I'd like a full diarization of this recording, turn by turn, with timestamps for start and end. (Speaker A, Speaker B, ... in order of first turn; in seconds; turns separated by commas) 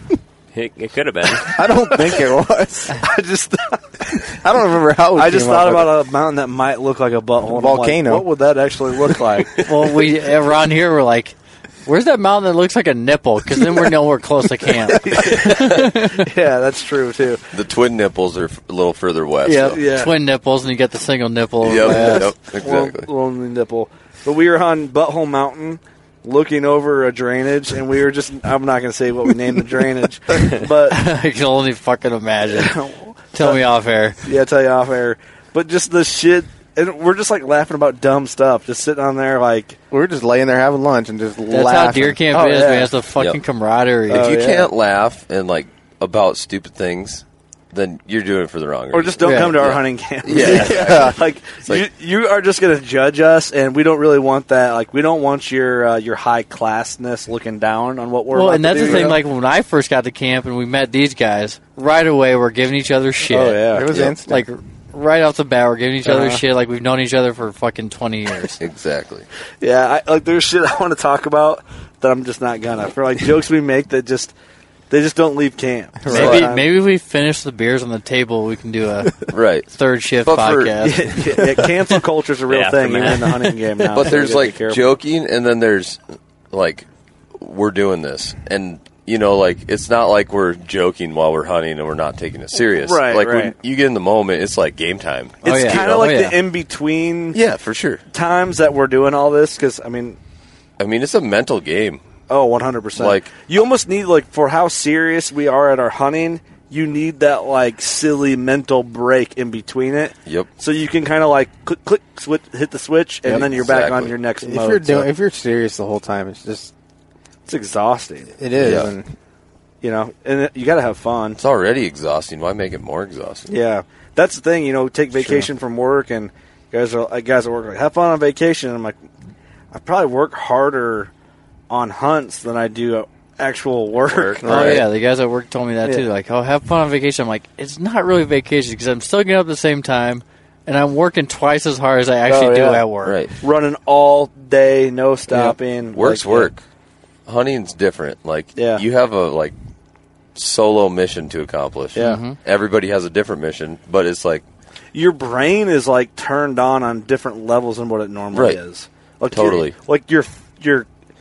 Speaker A: 0.5-1.6, Speaker B: 1.5-3.0, Speaker C: 3.0-3.9, Speaker B: 4.4-5.9, Speaker C: 5.2-9.7, Speaker B: 7.5-8.3, Speaker D: 9.6-16.3, Speaker C: 14.9-17.4, Speaker E: 17.5-19.8, Speaker D: 19.4-22.3, Speaker C: 19.7-20.1, Speaker E: 21.6-23.1, Speaker C: 21.8-31.0, Speaker D: 30.9-32.8, Speaker C: 32.5-33.6, Speaker D: 33.3-34.2, Speaker C: 34.2-39.8, Speaker B: 39.9-42.2, Speaker D: 41.5-44.3, Speaker C: 42.3-42.9, Speaker E: 44.1-51.9, Speaker C: 44.1-44.7, Speaker C: 48.9-59.2, Speaker D: 49.2-49.7, Speaker B: 50.3-51.2, Speaker D: 58.3-68.6, Speaker E: 58.8-59.1, Speaker C: 63.3-63.9, Speaker B: 63.7-64.5, Speaker E: 68.6-69.3, Speaker C: 69.6-74.3, Speaker C: 74.9-76.7, Speaker B: 76.0-76.4, Speaker D: 76.1-81.4, Speaker E: 76.1-76.5, Speaker E: 79.3-79.7, Speaker E: 80.2-80.9, Speaker C: 80.8-84.8, Speaker A: 82.5-83.5, Speaker E: 83.9-86.0, Speaker E: 86.5-86.9, Speaker E: 87.4-96.1, Speaker C: 92.8-93.5, Speaker D: 95.4-96.4, Speaker C: 95.4-97.4, Speaker E: 97.3-98.0, Speaker C: 98.1-100.2, Speaker E: 100.8-102.0, Speaker C: 102.3-115.1, Speaker E: 103.0-103.3, Speaker E: 113.4-114.2, Speaker B: 114.4-116.7, Speaker C: 117.5-118.3, Speaker B: 118.4-119.1, Speaker E: 118.6-118.9, Speaker C: 119.8-121.4, Speaker E: 121.4-123.5, Speaker C: 123.5-129.0, Speaker E: 125.2-125.5, Speaker C: 129.7-131.1, Speaker C: 131.7-134.8, Speaker E: 134.1-134.8, Speaker D: 134.4-143.2, Speaker C: 142.3-142.8, Speaker E: 143.0-143.3, Speaker C: 143.4-146.5, Speaker E: 145.3-146.6, Speaker E: 147.3-149.6, Speaker C: 148.6-148.8, Speaker E: 150.3-154.4, Speaker C: 151.9-152.2, Speaker D: 152.0-152.4, Speaker C: 154.9-160.9, Speaker E: 158.3-158.6, Speaker E: 159.3-159.8